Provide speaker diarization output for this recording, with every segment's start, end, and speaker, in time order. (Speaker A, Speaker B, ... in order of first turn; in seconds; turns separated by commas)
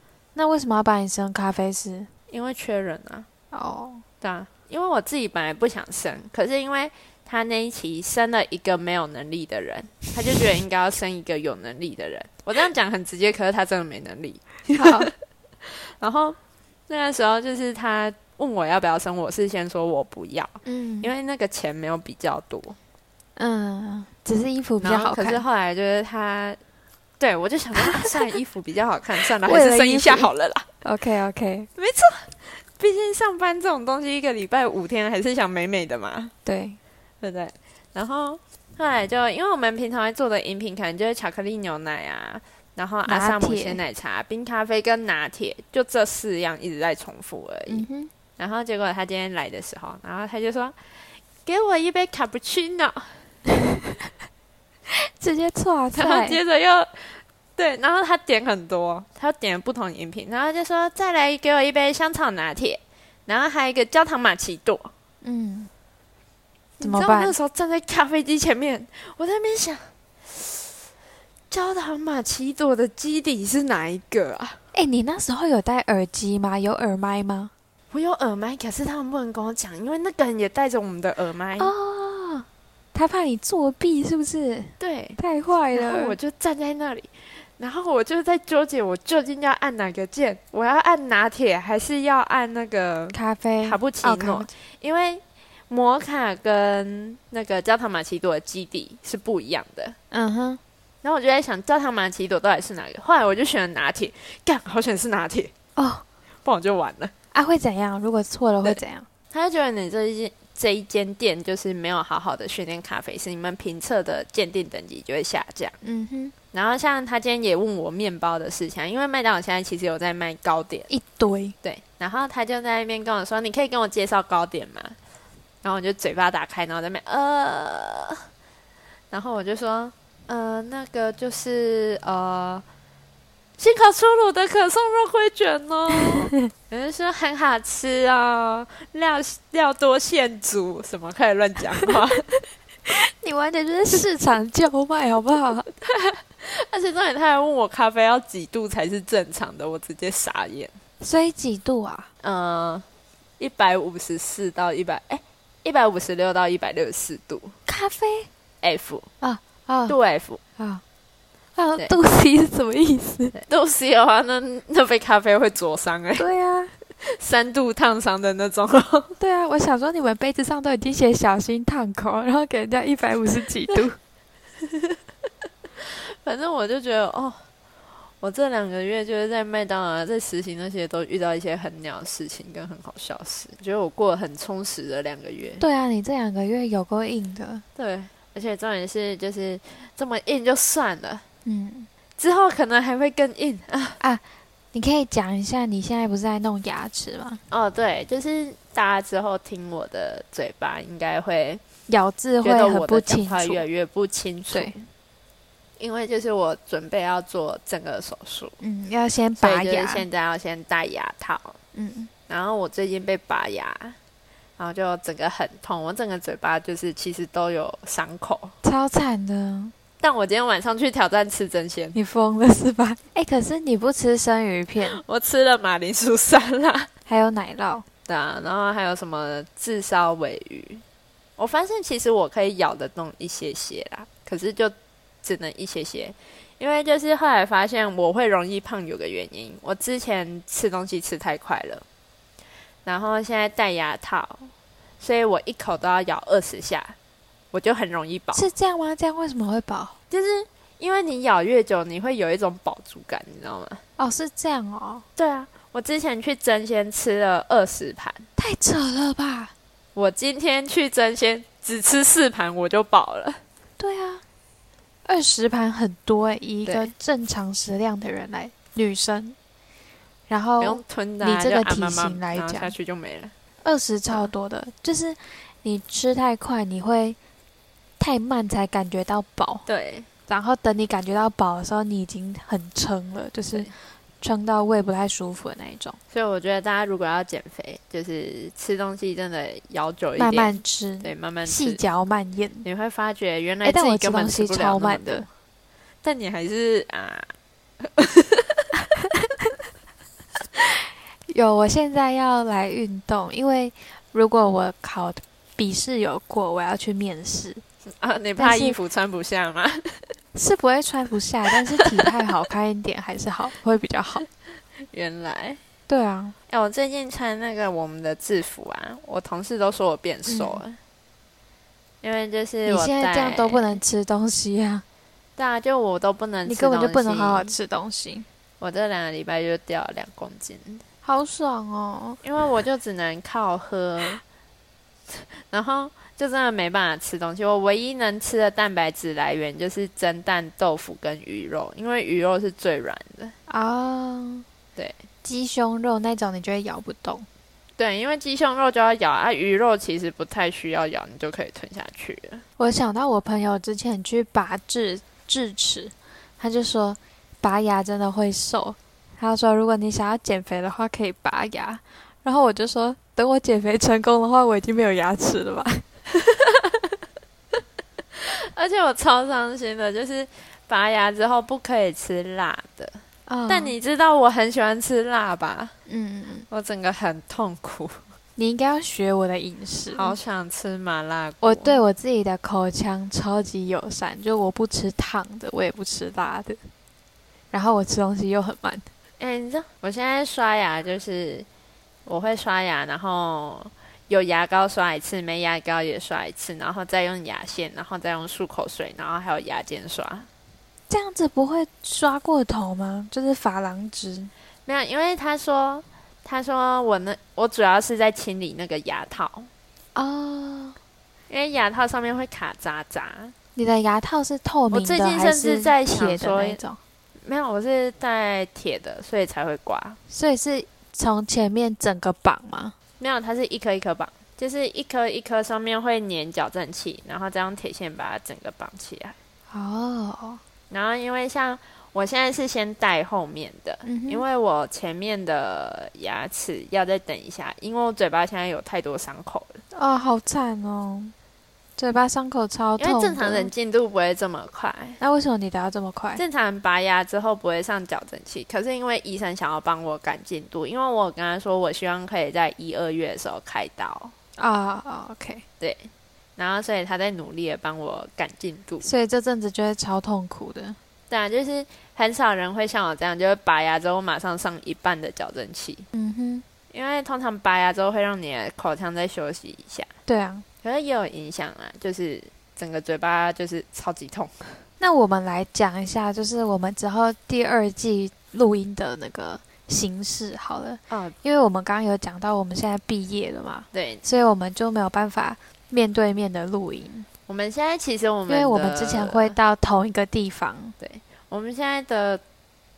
Speaker A: 0.3-2.1, Speaker B: 2.3-3.3, Speaker A: 3.5-4.0, Speaker B: 4.2-15.1, Speaker A: 14.7-15.1, Speaker B: 15.6-16.4, Speaker B: 16.9-22.8, Speaker A: 20.6-21.1, Speaker A: 23.4-25.4, Speaker B: 24.8-26.6, Speaker B: 27.2-30.7, Speaker A: 27.8-28.4, Speaker A: 29.2-30.3, Speaker A: 30.8-31.7, Speaker B: 31.8-36.3, Speaker A: 36.5-36.8, Speaker B: 37.2-47.9, Speaker A: 43.1-43.8, Speaker A: 47.7-48.1, Speaker B: 48.4-50.8, Speaker B: 51.5-53.3, Speaker A: 54.9-56.4, Speaker B: 55.9-64.9, Speaker A: 65.2-65.7, Speaker B: 66.8-70.8, Speaker A: 66.8-67.3, Speaker B: 71.5-74.6, Speaker A: 74.7-77.5, Speaker B: 77.9-81.7, Speaker A: 81.6-86.2, Speaker B: 84.8-85.2, Speaker B: 85.7-100.0, Speaker A: 93.1-94.5, Speaker A: 100.1-100.6, Speaker B: 101.0-105.5, Speaker A: 105.8-106.0, Speaker B: 106.5-107.1, Speaker A: 107.3-109.1, Speaker B: 108.6-115.8, Speaker A: 115.8-116.3, Speaker B: 116.5-120.9, Speaker A: 120.9-121.5, Speaker B: 121.6-125.0, Speaker B: 125.6-128.2, Speaker B: 129.1-132.6, Speaker B: 133.6-142.3, Speaker A: 142.9-145.7, Speaker B: 145.8-150.8, Speaker A: 151.0-152.1, Speaker B: 152.2-152.8, Speaker B: 153.4-157.6, Speaker A: 157.7-158.3, Speaker B: 158.6-159.1, Speaker A: 159.2-160.0, Speaker B: 159.9-160.4, Speaker A: 161.6-163.3, Speaker B: 163.3-166.3, Speaker A: 166.2-166.7, Speaker B: 167.0-169.2, Speaker A: 169.2-174.0, Speaker B: 174.6-175.0, Speaker B: 175.8-177.4, Speaker B: 178.2-185.6, Speaker A: 185.6-187.6, Speaker B: 187.8-191.2, Speaker A: 191.4-191.9, Speaker B: 192.2-194.0, Speaker A: 194.7-197.4, Speaker B: 197.5-201.6, Speaker A: 201.9-203.6, Speaker B: 202.4-204.9, Speaker B: 205.8-208.6, Speaker A: 208.6-210.1, Speaker B: 209.4-211.6, Speaker A: 211.7-212.1, Speaker B: 212.3-214.0, Speaker B: 214.6-218.5, Speaker A: 218.6-219.7, Speaker B: 220.0-222.0, Speaker A: 221.9-225.0, Speaker B: 224.8-226.9, Speaker A: 227.1-227.8, Speaker B: 228.1-230.8, Speaker B: 231.4-241.8, Speaker B: 242.8-247.0, Speaker B: 247.5-248.4, Speaker A: 248.3-249.9, Speaker B: 250.1-253.8, Speaker A: 254.0-255.1, Speaker B: 255.2-258.3, Speaker A: 258.4-259.5, Speaker B: 259.9-263.4, Speaker A: 263.8-264.2, Speaker A: 265.1-269.4, Speaker B: 266.6-266.9, Speaker A: 270.3-272.7, Speaker B: 270.6-273.3, Speaker A: 273.6-277.2, Speaker A: 278.0-279.6, Speaker B: 279.6-280.1, Speaker A: 280.3-286.0, Speaker B: 286.1-291.8, Speaker A: 290.2-292.6, Speaker B: 292.6-295.3, Speaker A: 293.6-295.3, Speaker B: 296.0-298.6, Speaker A: 301.3-307.6, Speaker B: 308.0-310.1, Speaker A: 308.4-308.8, Speaker A: 310.3-314.2, Speaker B: 311.8-312.1, Speaker B: 314.8-315.6, Speaker A: 315.9-316.4, Speaker B: 316.5-320.8, Speaker A: 320.3-320.6, Speaker B: 322.0-323.8, Speaker A: 322.6-324.8, Speaker B: 325.4-327.5, Speaker A: 326.5-328.3, Speaker B: 328.6-330.8, Speaker A: 331.0-332.2, Speaker B: 332.2-334.2, Speaker B: 335.1-343.3, Speaker A: 343.5-344.4, Speaker A: 345.2-347.3, Speaker B: 347.8-352.4, Speaker A: 352.6-365.9, Speaker B: 366.1-367.0, Speaker B: 368.1-375.7, Speaker A: 373.3-373.8, Speaker A: 375.9-376.5, Speaker B: 376.5-378.0, Speaker A: 378.4-380.2, Speaker B: 379.9-381.8, Speaker A: 381.4-386.6, Speaker A: 387.5-388.9, Speaker B: 389.2-391.5, Speaker B: 392.1-400.3, Speaker A: 400.9-404.3, Speaker B: 404.6-409.5, Speaker A: 410.0-410.8, Speaker B: 411.3-413.3, Speaker A: 413.6-416.8, Speaker B: 414.7-416.6, Speaker B: 417.2-420.0, Speaker A: 420.1-422.7, Speaker B: 423.0-429.1, Speaker A: 429.5-430.4, Speaker B: 430.7-439.6, Speaker A: 433.9-434.2, Speaker A: 439.7-441.1, Speaker A: 441.8-443.5, Speaker B: 442.8-445.0, Speaker A: 445.0-446.2, Speaker B: 446.1-454.1, Speaker A: 454.4-455.4, Speaker B: 455.6-458.9, Speaker A: 458.8-460.8, Speaker B: 461.1-465.9, Speaker A: 465.9-466.4, Speaker B: 466.7-469.9, Speaker A: 470.1-470.4, Speaker B: 470.6-474.6, Speaker A: 474.8-487.1, Speaker B: 480.9-481.1, Speaker B: 483.7-484.0, Speaker B: 487.3-489.4, Speaker A: 488.3-490.8, Speaker B: 490.8-492.2